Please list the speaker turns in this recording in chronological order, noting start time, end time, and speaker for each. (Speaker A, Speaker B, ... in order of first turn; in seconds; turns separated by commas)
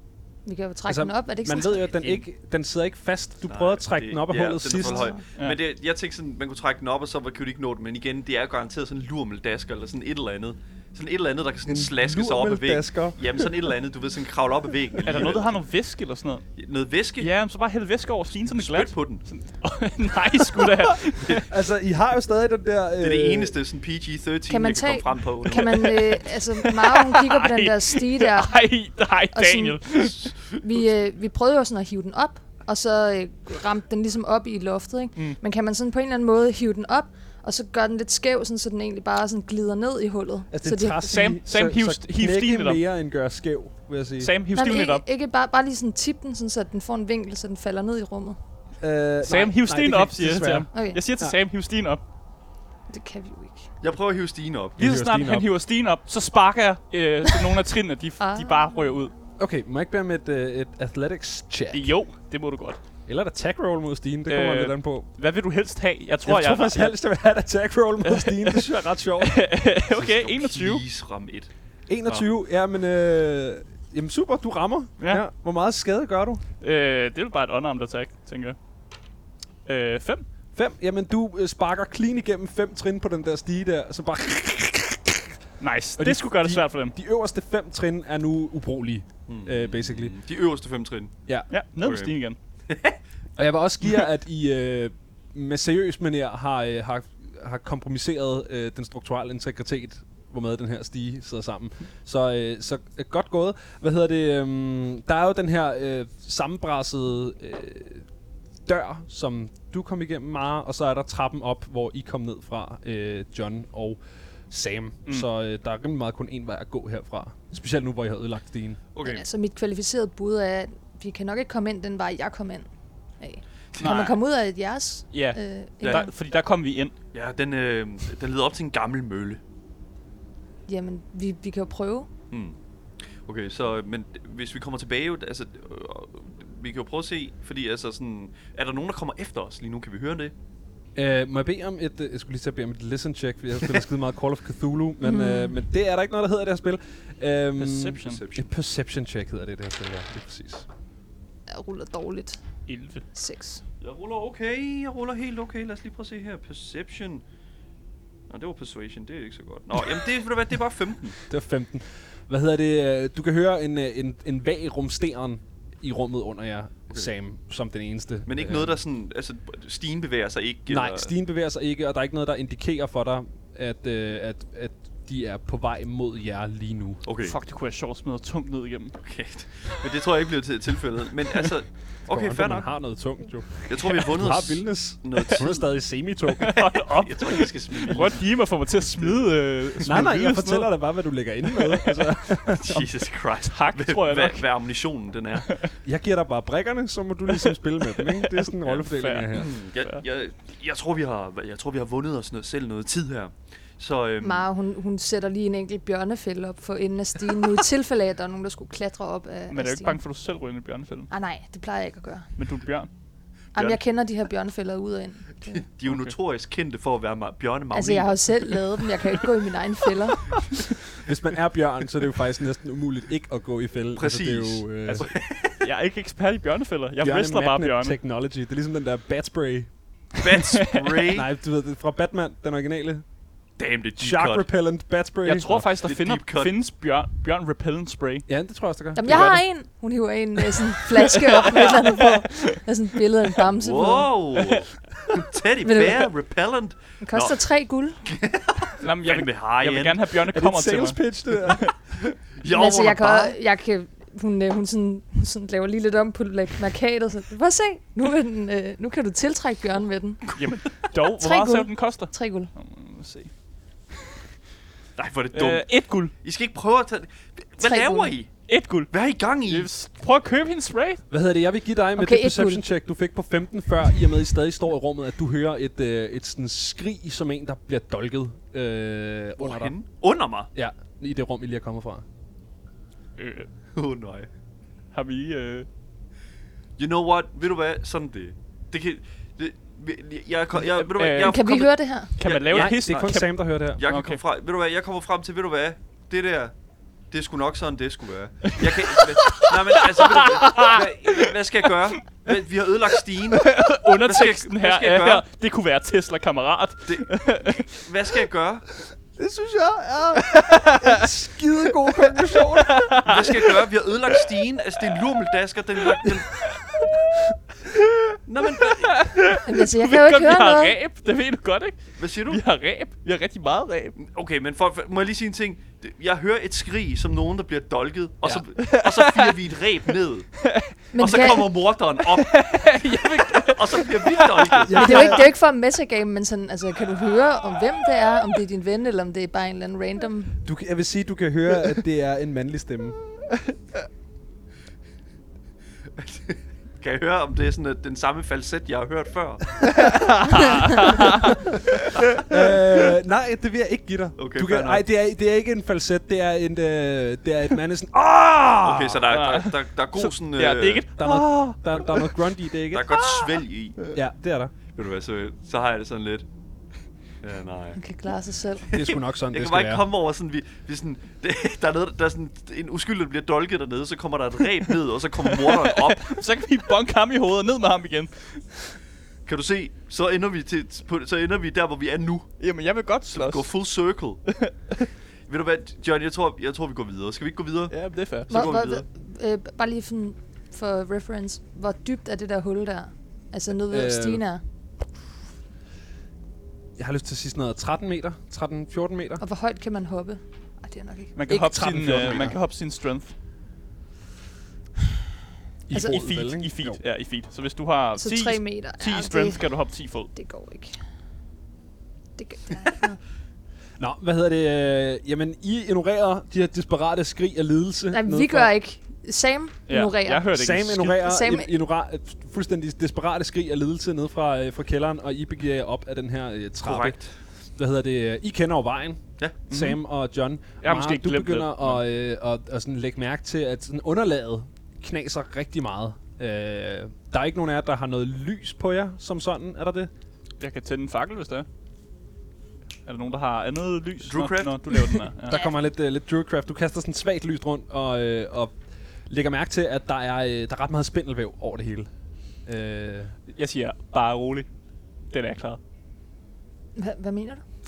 Speaker A: 0.5-2.1, Speaker B: 0.9-5.1, Speaker C: 3.5-15.5, Speaker A: 4.8-5.2, Speaker B: 11.7-13.7, Speaker D: 15.0-16.4, Speaker C: 16.6-17.3, Speaker D: 17.2-21.5, Speaker C: 18.5-19.2, Speaker B: 21.4-23.6, Speaker C: 23.0-25.9, Speaker A: 24.5-28.6, Speaker D: 25.5-30.3, Speaker A: 29.3-41.0, Speaker B: 40.5-44.3, Speaker D: 41.0-42.8, Speaker D: 44.2-45.0, Speaker A: 44.5-48.4, Speaker B: 48.8-51.4, Speaker D: 49.2-52.0, Speaker A: 50.7-51.0, Speaker A: 52.9-53.7, Speaker C: 53.8-54.8, Speaker B: 54.8-55.5, Speaker D: 54.8-59.1, Speaker A: 58.2-59.0, Speaker B: 59.4-61.9, Speaker D: 61.7-62.8, Speaker B: 63.1-65.1, Speaker D: 64.3-66.9, Speaker B: 66.2-69.4, Speaker D: 68.0-70.8, Speaker C: 69.9-71.5, Speaker B: 71.9-76.4, Speaker D: 76.6-78.6, Speaker D: 79.7-80.2, Speaker B: 80.5-85.3, Speaker D: 85.6-86.9, Speaker B: 86.0-90.2, Speaker C: 89.3-91.1, Speaker D: 91.5-92.4, Speaker C: 91.8-92.1, Speaker C: 92.7-93.0, Speaker B: 93.4-108.1, Speaker B: 108.7-118.8, Speaker C: 118.9-119.2, Speaker A: 119.0-122.7, Speaker A: 123.2-126.1, Speaker D: 123.8-124.2, Speaker D: 125.1-126.9, Speaker C: 127.1-129.4, Speaker A: 130.7-132.1, Speaker C: 132.3-132.6, Speaker C: 133.2-140.3, Speaker B: 140.9-150.7, Speaker A: 145.0-145.6, Speaker D: 147.6-148.2, Speaker C: 148.0-148.5, Speaker A: 151.5-152.4, Speaker D: 152.7-153.0, Speaker A: 153.1-153.6, Speaker C: 153.8-157.2, Speaker C: 158.3-161.2, Speaker B: 161.3-168.8, Speaker C: 168.2-171.1, Speaker B: 170.7-177.0, Speaker C: 177.0-177.4, Speaker D: 177.2-179.0, Speaker C: 179.0-182.7, Speaker B: 182.1-186.6, Speaker C: 183.7-185.6, Speaker D: 186.4-190.8, Speaker C: 186.4-188.2, Speaker B: 189.8-192.8, Speaker D: 191.4-192.1, Speaker C: 192.5-195.5, Speaker D: 193.4-194.5, Speaker B: 195.8-199.5, Speaker D: 197.4-200.0, Speaker C: 199.3-204.4, Speaker A: 204.2-210.0, Speaker D: 209.5-211.1, Speaker A: 211.1-212.3, Speaker D: 212.4-212.9, Speaker A: 213.5-215.6, Speaker C: 215.5-218.6, Speaker D: 215.8-216.1, Speaker A: 217.7-220.4, Speaker B: 221.0-225.1, Speaker C: 223.9-225.6, Speaker D: 224.8-227.9, Speaker B: 227.0-229.7, Speaker C: 230.2-231.3, Speaker D: 230.3-231.1, Speaker B: 231.1-233.0, Speaker C: 233.6-234.5, Speaker B: 234.0-235.7, Speaker D: 235.2-238.3, Speaker C: 235.8-236.5, Speaker B: 238.3-239.4, Speaker A: 238.9-244.1, Speaker D: 239.1-239.4, Speaker D: 241.4-242.4, Speaker C: 243.5-247.4, Speaker A: 245.6-246.1, Speaker A: 247.0-248.0, Speaker C: 248.0-250.0, Speaker D: 248.8-251.7, Speaker B: 250.3-251.7, Speaker C: 252.4-253.4, Speaker A: 252.5-260.4, Speaker D: 260.4-263.3, Speaker A: 261.2-262.5, Speaker C: 264.9-265.7, Speaker D: 265.3-266.1, Speaker C: 266.2-268.3, Speaker A: 267.6-268.1, Speaker D: 268.5-268.9, Speaker C: 268.9-269.7, Speaker D: 269.4-271.0, Speaker B: 271.1-279.7, Speaker A: 272.0-272.6, Speaker C: 279.4-280.5, Speaker B: 280.5-282.0, Speaker D: 283.2-283.5, Speaker C: 283.7-284.3, Speaker D: 284.9-285.7, Speaker C: 286.8-291.7, Speaker D: 290.6-294.2, Speaker A: 291.2-292.1, Speaker C: 292.2-293.1, Speaker B: 292.5-293.8, Speaker C: 293.8-296.5, Speaker C: 297.1-305.2, Speaker D: 298.6-301.3, Speaker D: 303.3-307.7, Speaker C: 306.9-308.6, Speaker B: 309.2-313.3, Speaker D: 310.4-311.0, Speaker D: 312.3-314.2, Speaker C: 313.0-316.4, Speaker D: 315.9-316.7, Speaker C: 318.2-319.1, Speaker D: 318.6-324.0, Speaker A: 319.4-320.8, Speaker C: 322.0-322.4, Speaker C: 324.0-330.4, Speaker D: 328.2-329.4, Speaker D: 330.4-331.4, Speaker A: 330.9-331.6, Speaker C: 331.0-334.9, Speaker D: 332.0-335.1, Speaker B: 334.6-335.3, Speaker A: 334.8-340.4, Speaker B: 340.4-343.0, Speaker C: 346.0-349.6, Speaker B: 349.7-350.6, Speaker D: 350.3-351.4, Speaker B: 351.5-359.0, Speaker C: 354.2-354.8, Speaker C: 358.6-360.9, Speaker D: 359.1-361.3, Speaker B: 361.0-363.2, Speaker C: 362.7-363.9, Speaker B: 363.9-364.5, Speaker C: 364.7-366.2, Speaker C: 367.2-367.8, Speaker A: 367.7-368.6, Speaker C: 368.7-376.2, Speaker B: 368.7-369.9, Speaker D: 375.2-378.6, Speaker C: 379.2-382.3, Speaker D: 382.4-383.5, Speaker C: 383.1-384.2, Speaker D: 384.2-384.5, Speaker C: 385.3-387.7, Speaker D: 387.7-388.5, Speaker C: 388.3-388.8, Speaker A: 388.3-394.4, Speaker B: 393.7-394.2, Speaker B: 396.8-399.2, Speaker A: 399.2-401.2, Speaker D: 401.1-403.1, Speaker B: 401.3-402.4, Speaker B: 405.7-406.8, Speaker D: 405.7-410.1, Speaker A: 407.9-409.5, Speaker A: 410.1-410.8, Speaker A: 412.2-413.0, Speaker B: 413.8-418.5, Speaker A: 417.9-420.3, Speaker D: 419.7-421.0, Speaker B: 420.3-427.0, Speaker A: 420.9-421.5, Speaker C: 426.6-427.1, Speaker B: 427.6-439.9, Speaker D: 429.5-429.8, Speaker D: 430.6-431.8, Speaker D: 440.4-441.5, Speaker D: 442.9-445.4, Speaker C: 444.0-445.1, Speaker B: 445.3-448.5, Speaker A: 445.3-445.5, Speaker B: 449.1-451.9, Speaker B: 452.4-453.1, Speaker D: 453.3-454.5, Speaker D: 455.1-455.6, Speaker A: 456.8-457.4